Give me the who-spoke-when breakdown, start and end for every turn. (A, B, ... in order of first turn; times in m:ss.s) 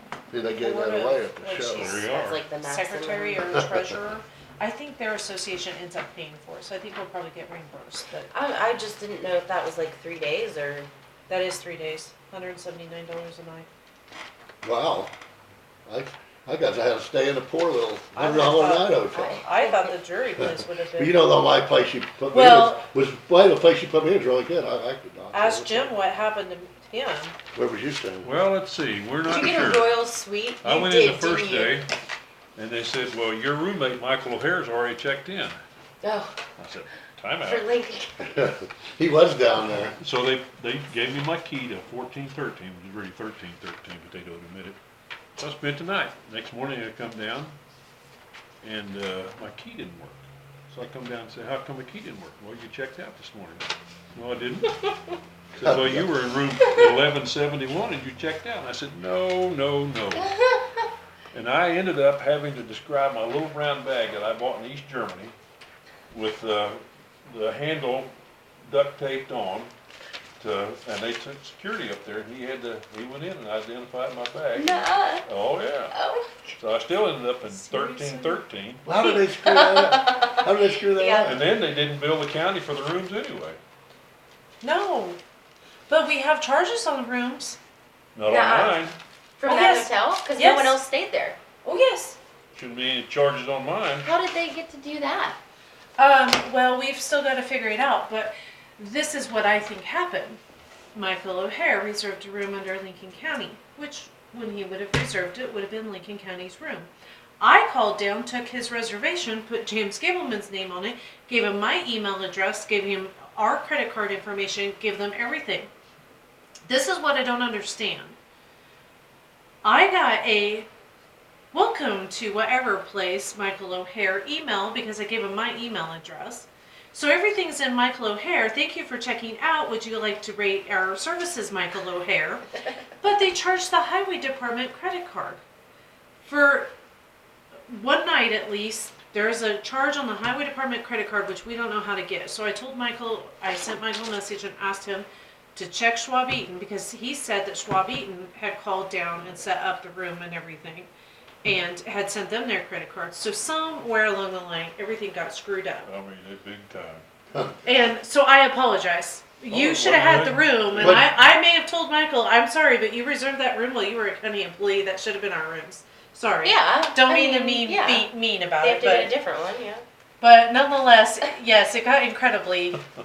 0:00.3-0:02.1 A
0:00.4-0:08.3 B
0:01.7-0:02.4 C
0:02.1-0:03.5 D
0:03.5-0:03.9 A
0:08.3-0:10.9 D
0:11.3-0:13.7 B
0:14.6-0:15.1 A
0:15.8-0:19.4 A
0:18.1-0:21.2 B
0:19.1-0:19.9 D
0:20.4-0:26.0 A
0:22.3-0:22.8 B
0:25.3-0:27.3 B
0:27.5-0:28.3 A
0:28.2-0:30.0 C
0:29.2-0:31.8 D
0:30.6-0:31.9 C
0:32.5-0:35.6 C
0:36.0-0:36.4 D
0:36.6-0:37.6 C
0:37.4-0:38.3 D
0:38.2-0:40.0 A
0:39.8-0:44.8 C
0:45.4-0:47.6 C
0:48.6-0:54.7 C
0:55.5-1:00.3 C
0:55.6-0:56.1 A
1:00.2-1:00.6 D
1:01.3-1:05.3 C
1:06.1-1:09.7 C
1:10.4-1:15.9 C
1:14.5-1:15.2 D
1:15.9-1:16.3 D
1:16.6-1:18.8 C
1:17.5-1:18.4 B
1:18.8-1:21.4 A
1:19.0-1:21.4 D
1:21.2-1:23.6 C
1:24.6-1:25.2 B
1:25.9-1:27.6 B
1:28.1-1:29.0 C
1:28.2-1:28.8 D
1:29.4-1:31.4 D
1:29.4-1:30.8 B
1:31.6-1:32.2 B
1:32.5-1:34.1 C
1:34.0-1:35.4 D
1:36.0-1:40.4 B
1:40.9-1:55.7 B
1:56.6-1:58.2 B
1:59.6-2:00.7 B
2:01.5-2:12.4 B
2:13.0-2:15.4 B
2:16.2-2:16.7 B
2:17.7-2:30.9 B
2:31.4-2:35.9 B
2:35.8-2:37.0 C
2:37.3-2:37.6 A
2:37.6-2:49.2 B
2:39.5-2:41.2 C
2:40.8-2:41.1 A
2:46.4-2:49.8 D
2:50.2-2:52.8 B